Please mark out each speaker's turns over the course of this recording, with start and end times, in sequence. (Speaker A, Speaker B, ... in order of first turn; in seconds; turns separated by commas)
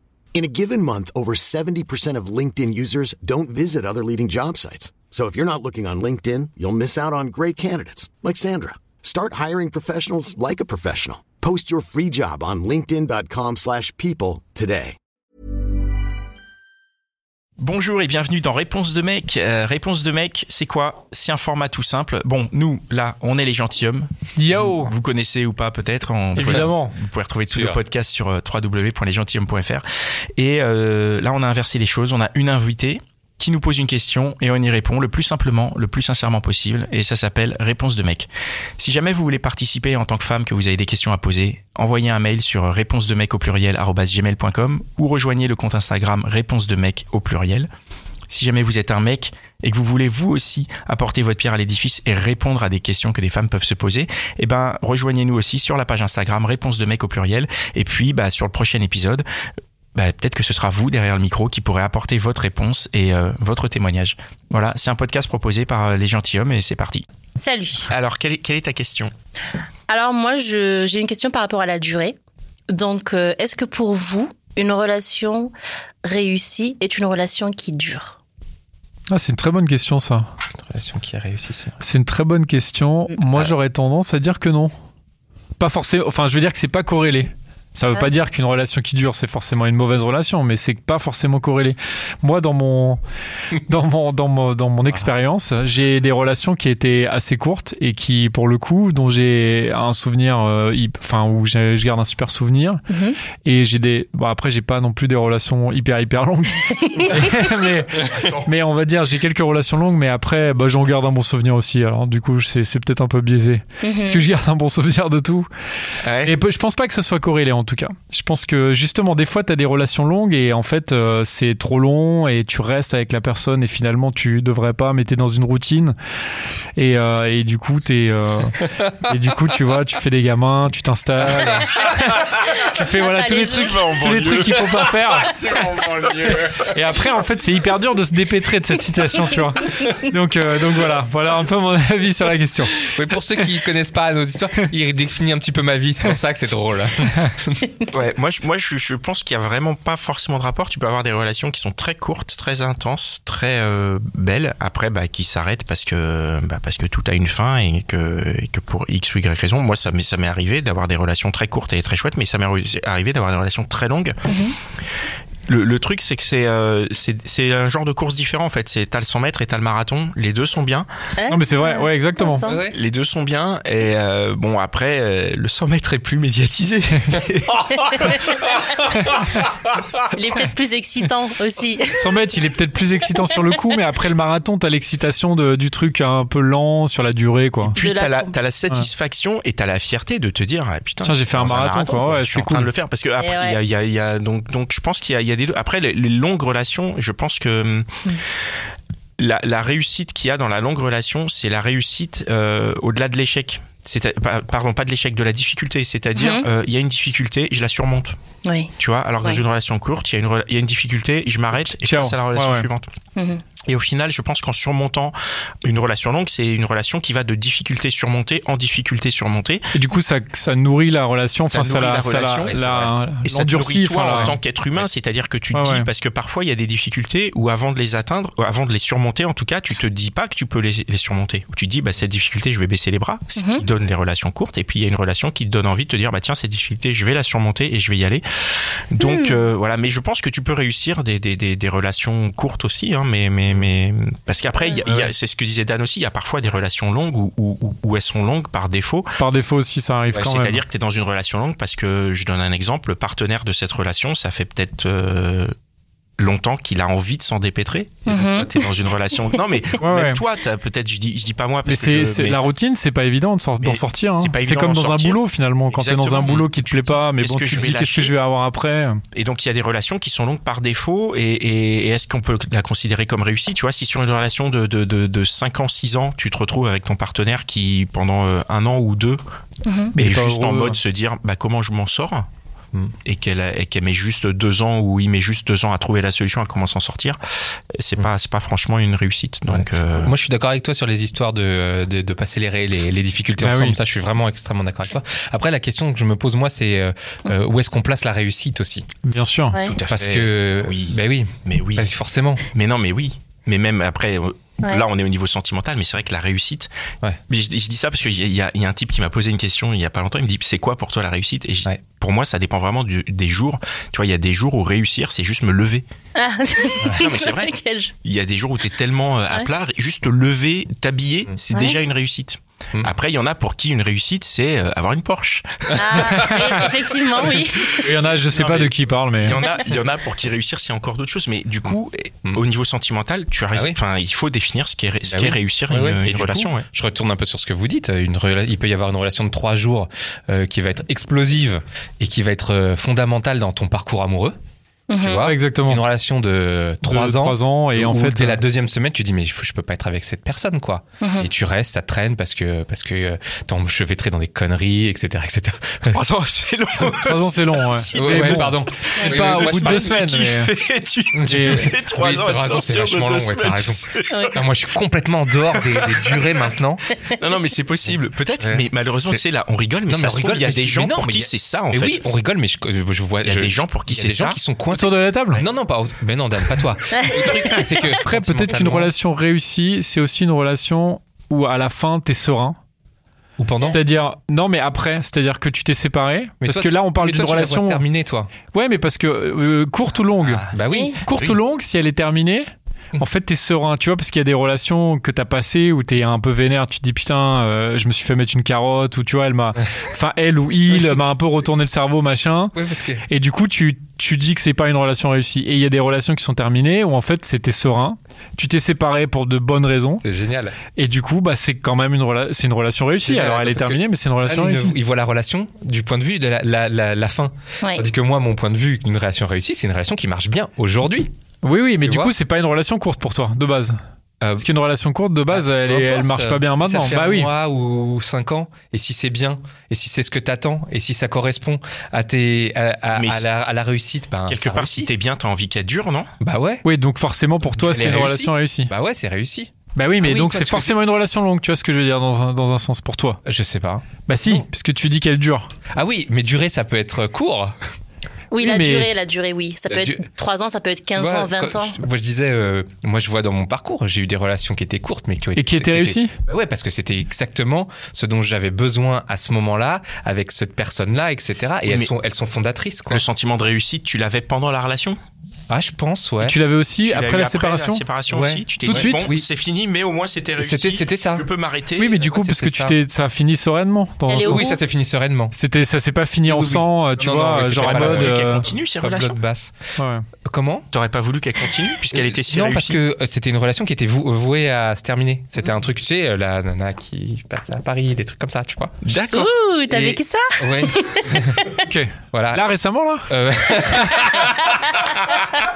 Speaker A: 0.3-14.9, Speaker B: 17.6-29.8, Speaker C: 24.4-24.9, Speaker C: 26.3-26.9, Speaker D: 27.5-27.8, Speaker B: 30.4-47.7, Speaker B: 48.3-59.2, Speaker B: 59.9-67.0, Speaker E: 67.4-67.9, Speaker B: 67.9-69.1, Speaker E: 69.9-72.1, Speaker E: 72.7-75.5, Speaker E: 76.0-78.2, Speaker C: 79.1-80.3, Speaker D: 80.5-81.8, Speaker C: 81.8-84.7, Speaker C: 85.6-93.0, Speaker C: 93.5-102.8, Speaker E: 102.9-103.2, Speaker C: 103.4-115.5, Speaker E: 113.8-114.2, Speaker D: 116.0-116.3, Speaker C: 116.2-126.0, Speaker C: 126.7-135.6, Speaker E: 133.0-133.9, Speaker B: 133.8-135.1, Speaker B: 135.7-136.5, Speaker C: 136.5-142.9, Speaker D: 142.9-147.7, Speaker B: 147.9-164.2, Speaker E: 164.3-164.5, Speaker B: 165.5-170.9, Speaker E: 171.2-172.6, Speaker C: 171.3-172.4, Speaker D: 172.4-172.7, Speaker B: 172.7-178.3, Speaker E: 177.7-178.9, Speaker E: 180.1-182.2, Speaker C: 182.0-187.8, Speaker E: 187.7-188.4, Speaker B: 187.7-197.9, Speaker C: 191.0-192.7, Speaker E: 193.2-193.6, Speaker B: 199.2-208.2, Speaker E: 206.2-206.5, Speaker E: 208.4-209.4, Speaker B: 208.8-212.9, Speaker C: 211.6-212.7, Speaker E: 213.2-213.4, Speaker B: 213.6-219.7, Speaker C: 219.7-224.4, Speaker B: 221.5-238.2, Speaker D: 222.4-222.9, Speaker D: 224.1-224.8, Speaker C: 225.5-225.9, Speaker E: 233.3-233.6, Speaker B: 238.9-249.1, Speaker E: 239.0-239.4, Speaker C: 249.2-250.6, Speaker B: 250.2-255.5, Speaker B: 256.2-262.4, Speaker E: 258.1-259.4, Speaker C: 259.8-260.2, Speaker C: 261.6-269.0, Speaker B: 263.6-265.2, Speaker B: 265.7-268.1, Speaker B: 269.1-279.2, Speaker E: 279.6-280.0, Speaker C: 279.9-280.8, Speaker B: 280.0-282.3, Speaker B: 283.0-287.2, Speaker B: 287.8-290.1, Speaker D: 289.5-298.9, Speaker C: 293.4-293.8, Speaker C: 299.0-299.6, Speaker B: 299.6-301.9, Speaker D: 299.9-302.4, Speaker B: 302.5-306.7, Speaker B: 307.3-315.8, Speaker E: 316.1-317.9, Speaker B: 316.9-326.3, Speaker E: 321.5-321.8, Speaker E: 325.7-327.7, Speaker C: 326.0-326.6, Speaker B: 327.6-336.6, Speaker C: 327.8-329.4, Speaker D: 335.1-344.4, Speaker E: 344.9-345.3, Speaker D: 345.0-356.0, Speaker C: 345.2-345.8, Speaker C: 346.8-348.4, Speaker E: 351.0-351.3, Speaker B: 355.9-364.4, Speaker C: 357.0-360.5, Speaker D: 357.9-359.9, Speaker D: 361.1-366.8, Speaker C: 361.2-361.7, Speaker E: 364.1-364.4, Speaker B: 365.5-366.2, Speaker B: 367.2-372.0, Speaker D: 368.4-369.2, Speaker D: 369.9-378.9, Speaker B: 373.2-374.4, Speaker C: 374.7-375.4, Speaker C: 377.8-382.6, Speaker D: 383.4-383.8, Speaker C: 383.6-387.8, Speaker D: 386.4-388.3, Speaker C: 388.5-390.4, Speaker B: 390.2-391.4, Speaker D: 390.5-391.0, Speaker E: 390.7-391.0, Speaker C: 391.0-402.5, Speaker D: 402.5-403.0, Speaker C: 403.1-410.0, Speaker D: 410.0-410.6, Speaker C: 410.8-414.8, Speaker D: 413.0-421.1, Speaker C: 421.4-423.8, Speaker D: 421.8-422.1, Speaker D: 424.2-424.5, Speaker C: 424.4-427.3, Speaker D: 425.3-434.9, Speaker B: 432.9-433.3, Speaker B: 434.3-436.1, Speaker D: 436.2-436.6, Speaker C: 436.6-438.7, Speaker D: 437.4-440.8, Speaker C: 439.7-443.2, Speaker D: 443.2-444.4, Speaker C: 444.1-445.5, Speaker D: 445.7-447.6, Speaker E: 448.3-451.8, Speaker C: 448.4-448.9, Speaker D: 449.6-450.0, Speaker D: 450.9-463.0, Speaker C: 455.3-456.1, Speaker B: 462.9-465.0, Speaker D: 465.5-466.4, Speaker C: 466.2-467.8, Speaker B: 466.8-471.9, Speaker D: 468.1-469.3, Speaker C: 468.6-469.1, Speaker D: 470.4-471.3, Speaker C: 471.8-474.5, Speaker D: 471.9-472.8, Speaker E: 474.1-474.6, Speaker D: 474.2-475.3, Speaker C: 475.3-478.4, Speaker D: 476.2-479.5, Speaker B: 477.5-479.2, Speaker C: 479.8-480.1, Speaker D: 480.3-480.7, Speaker B: 480.7-482.8, Speaker D: 481.9-488.8, Speaker B: 488.8-489.3, Speaker E: 489.1-491.6, Speaker D: 489.7-491.4, Speaker C: 491.6-493.1, Speaker D: 492.1-492.4, Speaker D: 493.1-494.3